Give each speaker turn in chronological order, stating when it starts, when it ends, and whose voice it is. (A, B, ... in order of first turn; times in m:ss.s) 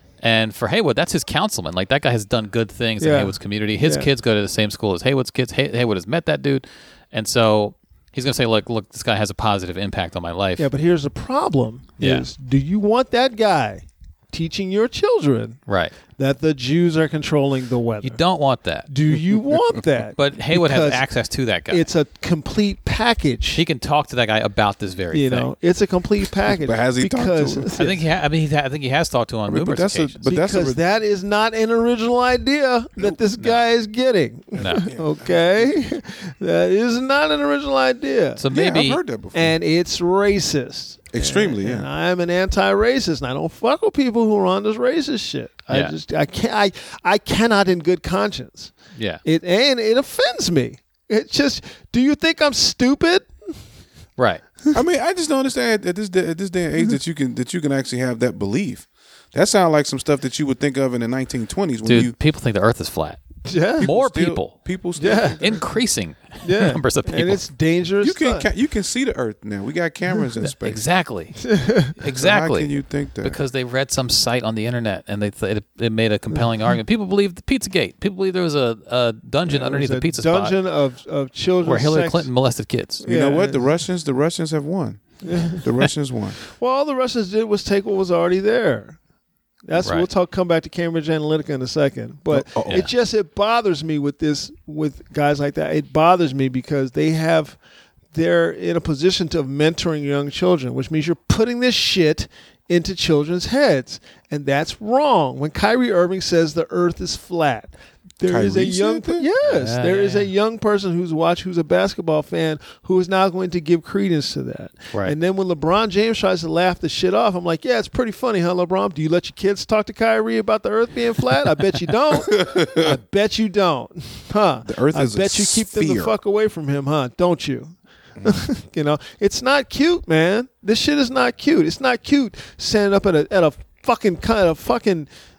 0:00.2-0:10.7 A
0:03.0-0:04.1 B
0:10.6-0:15.6 B
0:12.0-0:12.3 A
0:15.7-0:15.9 A
0:16.2-0:18.2 B
0:18.0-0:18.9 A
0:18.9-0:21.0 B
0:20.2-0:21.8 A
0:21.7-0:23.6 B
0:23.5-0:25.5 A
0:25.1-0:28.0 B
0:26.6-0:27.7 C
0:27.8-0:30.2 A
0:29.5-0:30.8 C
0:30.3-0:38.4 B
0:33.4-0:33.6 A
0:34.6-0:34.9 A
0:34.8-0:35.8 C
0:38.4-0:39.0 A
0:38.5-0:39.5 C
0:39.3-0:48.7 B
0:41.1-0:41.9 C
0:48.9-0:49.2 A
0:49.2-0:53.5 B
0:54.2-0:54.4 A
0:54.7-1:02.2 C
1:01.8-1:03.2 A
1:03.5-1:03.9 B
1:03.8-1:04.7 A
1:03.8-1:05.7 C
1:05.0-1:05.4 B
1:05.4-1:07.4 A
1:06.4-1:08.5 B
1:08.0-1:10.8 C
1:10.6-1:20.6 A
1:11.5-1:11.9 B
1:12.1-1:13.4 C
1:19.5-1:22.3 B
1:21.6-1:23.0 A
1:23.0-1:23.7 B
1:23.0-1:26.4 C
1:25.2-1:25.6 B
1:26.5-1:29.0 B
1:29.7-1:37.6 B
1:29.8-1:30.1 A
1:32.3-1:32.8 C
1:38.1-2:15.1 B
1:48.2-1:49.3 C
1:49.4-1:50.3 A
2:02.3-2:03.0 C
2:04.7-2:06.2 C